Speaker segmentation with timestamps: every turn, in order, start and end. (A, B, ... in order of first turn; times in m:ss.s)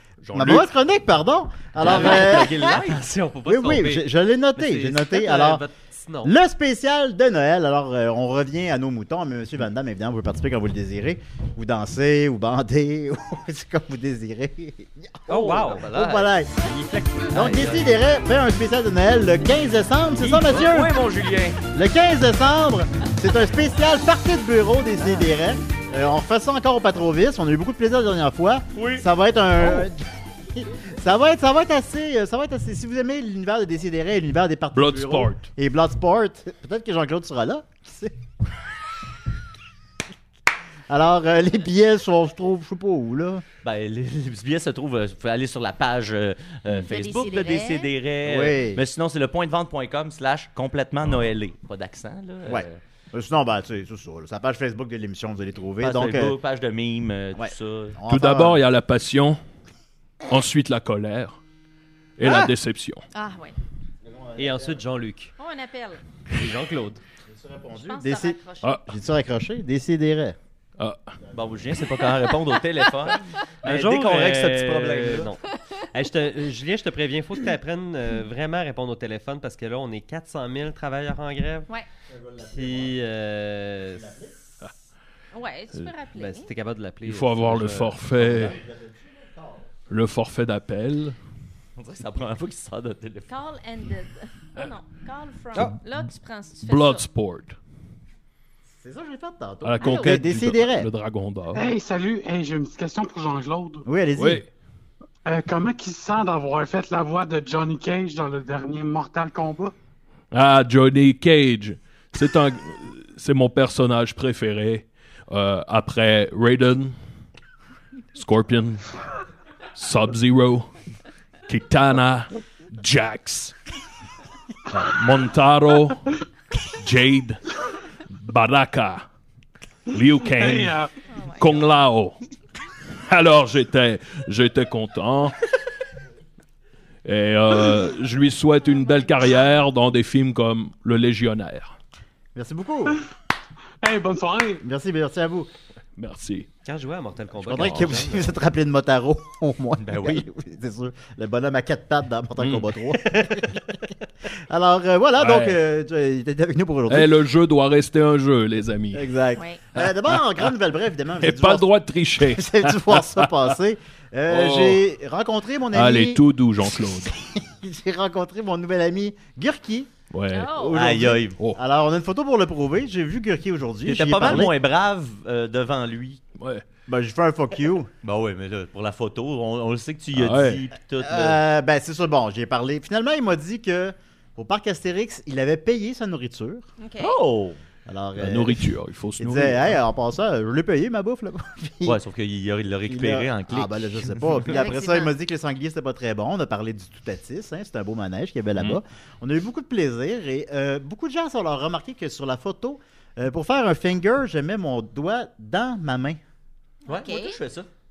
0:00.2-0:00.7 A
0:00.3-0:02.8 B
0:01.8-0:03.0 C
0:01.8-0:06.4 D
0:02.3-0:02.8 E
0:03.5-0:05.6 B
0:06.2-0:16.7 B
0:15.3-0:15.9 D
0:15.4-0:16.3 C
0:16.7-0:17.8 D
0:17.3-0:21.0 B
0:17.4-0:17.8 C
0:20.2-0:21.6 C
0:21.7-0:38.2 B
0:28.8-0:29.0 C
0:34.7-0:35.5 A
0:40.9-0:43.4 B
0:43.6-0:52.8 C
0:46.8-0:47.9 E
0:48.2-0:48.8 B
0:52.5-0:56.4 B
0:55.8-0:58.0 C
0:57.4-0:58.6 B
0:58.1-0:59.4 A
1:00.3-1:01.4 A
1:02.2-1:03.0 A
1:03.1-1:03.6 E
1:04.0-1:04.8 B
1:04.4-1:05.3 D
1:05.4-1:06.0 E
1:06.3-1:07.0 D
1:07.3-1:10.4 B
1:07.7-1:08.8 E
1:11.3-1:15.3 C
1:13.6-1:21.7 D
1:22.1-1:23.0 B
1:22.5-1:24.1 D
1:23.9-1:24.4 B
1:25.3-1:26.5 E
1:26.2-1:28.0 D
1:27.0-1:28.6 A
1:28.2-1:29.6 B
1:29.9-1:31.2 A
1:31.8-1:33.3 C
1:33.3-1:37.1 E
1:36.6-1:37.6 A
1:38.7-1:40.9 B
1:39.6-1:41.6 A
1:39.8-1:40.2 E
1:41.5-1:43.8 F
1:43.8-1:44.4 B
1:44.2-1:44.5 A
1:45.2-1:49.7 F
1:50.3-1:57.0 A
1:58.1-1:58.9 A
1:59.7-2:00.7 A
2:01.5-2:03.6 A
2:04.7-2:06.1 A
2:06.8-2:07.4 A
2:08.2-2:09.0 A
2:09.9-2:10.8 A
2:10.3-2:10.9 F
2:11.1-2:11.6 E
2:11.4-2:12.2 A
2:13.1-2:15.4 A
2:17.0-2:21.7 A
2:22.4-2:23.0 B
2:23.8-2:24.6 F
2:24.6-2:25.5 B
2:26.0-2:26.5 A
2:26.6-2:28.3 D
2:27.4-2:37.1 B
2:27.5-2:28.0 A
2:29.8-2:30.2 C
2:32.4-2:32.6 A
2:35.2-2:35.6 A
2:36.9-2:39.1 A
2:38.9-2:49.9 B
2:39.4-2:39.6 E
2:39.8-2:40.2 A
2:41.2-2:43.4 A
2:44.3-2:44.8 A
2:45.7-2:47.1 A
2:50.1-2:50.7 A
2:50.3-2:50.8 E
2:50.5-2:54.5 B
2:50.7-2:51.4 C
2:53.8-2:56.2 C
2:54.2-2:54.5 A
2:56.4-2:56.6 A
2:56.9-2:57.9 B
2:58.0-3:01.4 C
3:00.1-3:00.6 A
3:01.0-3:06.7 B
3:06.8-3:07.2 E
3:07.0-3:07.6 C
3:07.9-3:12.0 B
3:08.2-3:09.7 A
3:11.8-3:14.6 C
3:12.9-3:26.2 B
3:14.5-3:15.1 E
3:26.9-3:27.4 E
3:26.9-3:27.7 C